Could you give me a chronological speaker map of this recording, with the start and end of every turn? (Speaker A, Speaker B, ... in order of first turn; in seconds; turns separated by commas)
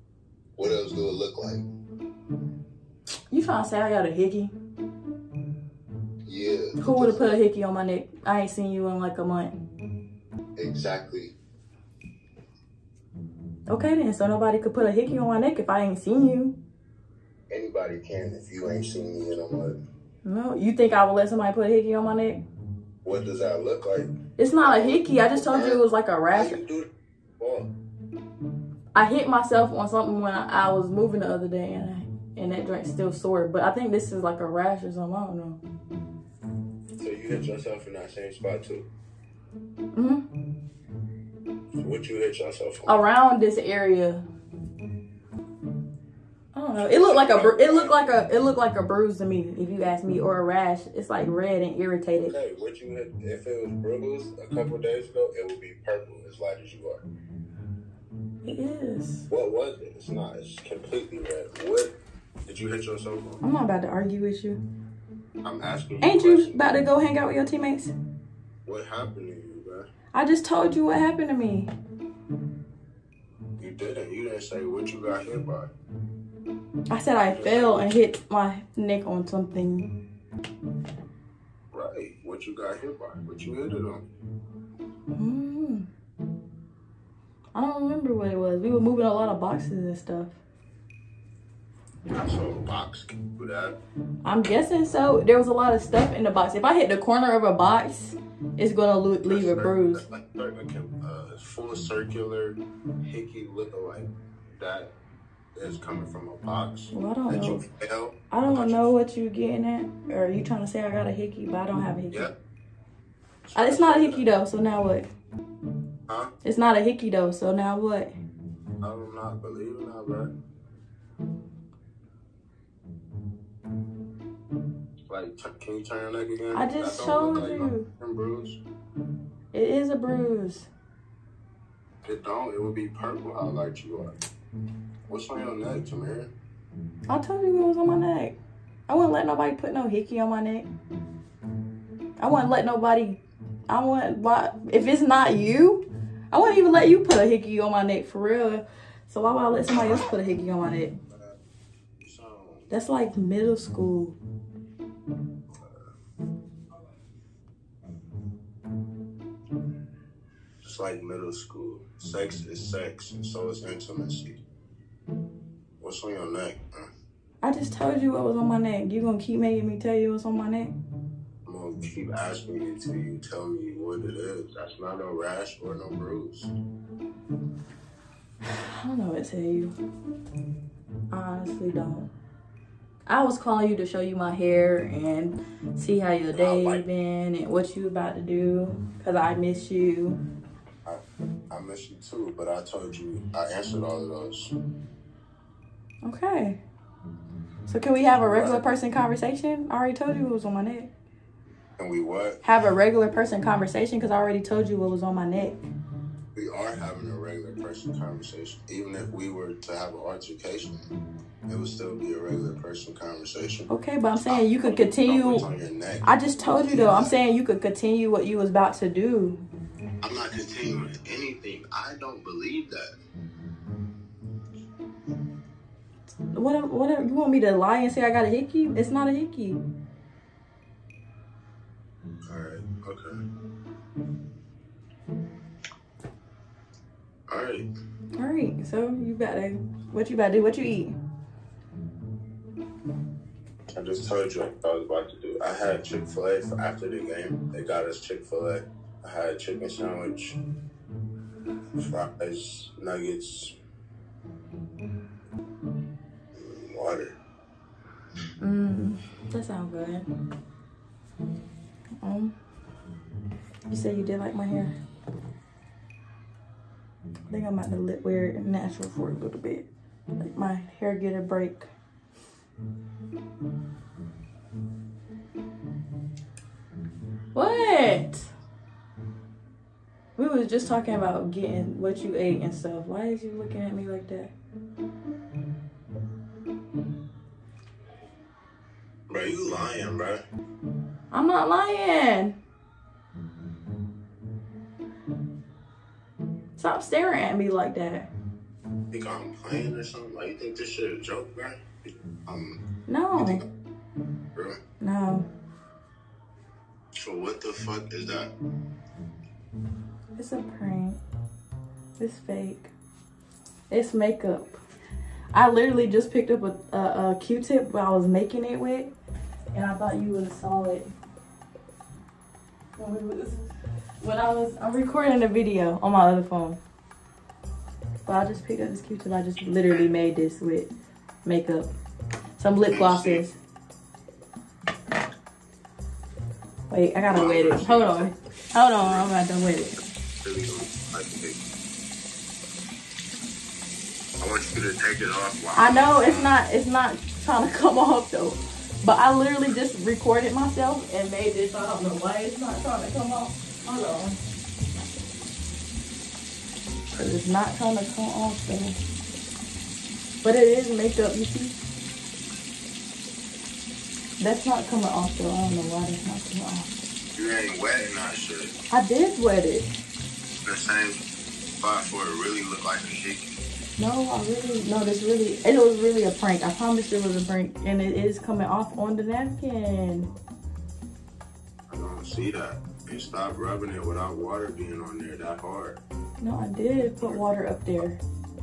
Speaker A: 0.6-1.6, Speaker B: 3.3-4.5, Speaker A: 6.2-7.4, Speaker B: 6.8-9.5, Speaker A: 10.6-11.3, Speaker B: 13.7-16.6, Speaker A: 17.5-19.8, Speaker B: 20.2-22.4, Speaker A: 23.0-27.7, Speaker B: 24.4-26.6, Speaker B: 28.9-35.6, Speaker A: 37.0-38.9, Speaker B: 39.9-40.3, Speaker A: 41.7-43.0, Speaker B: 42.9-44.2, Speaker B: 46.5-52.3, Speaker A: 46.7-48.3, Speaker A: 52.1-57.0, Speaker B: 58.4-59.2, Speaker A: 59.3-61.9, Speaker A: 62.5-63.4, Speaker B: 63.4-64.6, Speaker A: 65.4-66.7, Speaker B: 66.0-67.9, Speaker A: 68.6-69.9, Speaker B: 70.1-71.7, Speaker A: 73.6-75.7, Speaker B: 76.9-79.9, Speaker A: 77.3-78.0, Speaker A: 81.7-84.0, Speaker B: 85.1-85.9, Speaker B: 87.5-90.4, Speaker A: 92.2-93.8, Speaker B: 94.2-100.0, Speaker A: 99.2-104.9, Speaker A: 105.5-109.0, Speaker B: 106.9-107.6, Speaker B: 108.3-112.3, Speaker A: 113.5-114.3, Speaker B: 113.5-115.1, Speaker B: 116.4-118.1, Speaker A: 118.8-120.3, Speaker A: 125.1-128.6, Speaker B: 126.5-127.9, Speaker B: 129.5-130.7, Speaker A: 132.0-134.1, Speaker A: 135.1-136.3, Speaker B: 137.1-138.4, Speaker B: 138.9-140.7, Speaker B: 142.2-150.9, Speaker A: 152.0-152.7, Speaker B: 152.7-154.2, Speaker A: 155.6-155.9, Speaker A: 160.6-164.4, Speaker A: 165.8-166.9, Speaker B: 167.4-170.7, Speaker A: 171.4-176.5, Speaker B: 178.5-179.7, Speaker B: 181.1-182.1, Speaker B: 183.1-190.2, Speaker A: 186.3-186.8, Speaker A: 190.8-194.5, Speaker B: 196.0-196.6, Speaker B: 197.7-200.9, Speaker A: 198.2-198.6, Speaker A: 201.8-202.4, Speaker B: 202.4-205.7, Speaker A: 206.3-210.9, Speaker A: 211.5-213.7, Speaker B: 213.7-215.4, Speaker A: 214.3-217.1, Speaker B: 216.0-219.4, Speaker A: 220.0-223.0, Speaker B: 226.3-229.6, Speaker A: 232.2-233.2, Speaker A: 237.3-237.7, Speaker B: 238.2-241.0, Speaker A: 243.7-250.4, Speaker A: 251.8-253.5, Speaker A: 256.3-257.2, Speaker B: 258.4-260.1, Speaker B: 262.0-262.3, Speaker B: 263.7-264.7, Speaker B: 267.3-269.6, Speaker B: 270.2-271.7, Speaker B: 277.3-278.3, Speaker B: 280.1-284.3, Speaker A: 289.1-290.2, Speaker B: 291.1-292.4, Speaker B: 296.6-298.1, Speaker A: 298.9-302.6, Speaker B: 302.9-303.4, Speaker A: 303.1-303.4, Speaker A: 304.3-304.6, Speaker B: 304.8-305.3, Speaker A: 307.0-308.3, Speaker B: 310.1-311.0, Speaker B: 312.0-312.7, Speaker B: 313.7-314.6, Speaker B: 315.3-318.9, Speaker B: 319.5-320.9, Speaker B: 322.8-323.5, Speaker B: 324.0-326.6, Speaker B: 328.1-330.7, Speaker B: 331.2-331.7, Speaker B: 332.4-333.3, Speaker A: 332.7-333.2, Speaker B: 336.7-339.8, Speaker A: 337.0-338.1, Speaker A: 338.8-339.2, Speaker A: 340.2-341.4, Speaker A: 344.2-346.4, Speaker B: 345.6-354.2, Speaker B: 356.9-358.8, Speaker B: 360.2-361.5, Speaker B: 364.2-366.8, Speaker A: 367.1-368.5, Speaker B: 368.7-369.7, Speaker A: 370.4-371.0, Speaker A: 371.6-373.3, Speaker B: 373.8-380.1, Speaker A: 381.7-385.8, Speaker B: 386.2-388.0, Speaker A: 386.9-387.2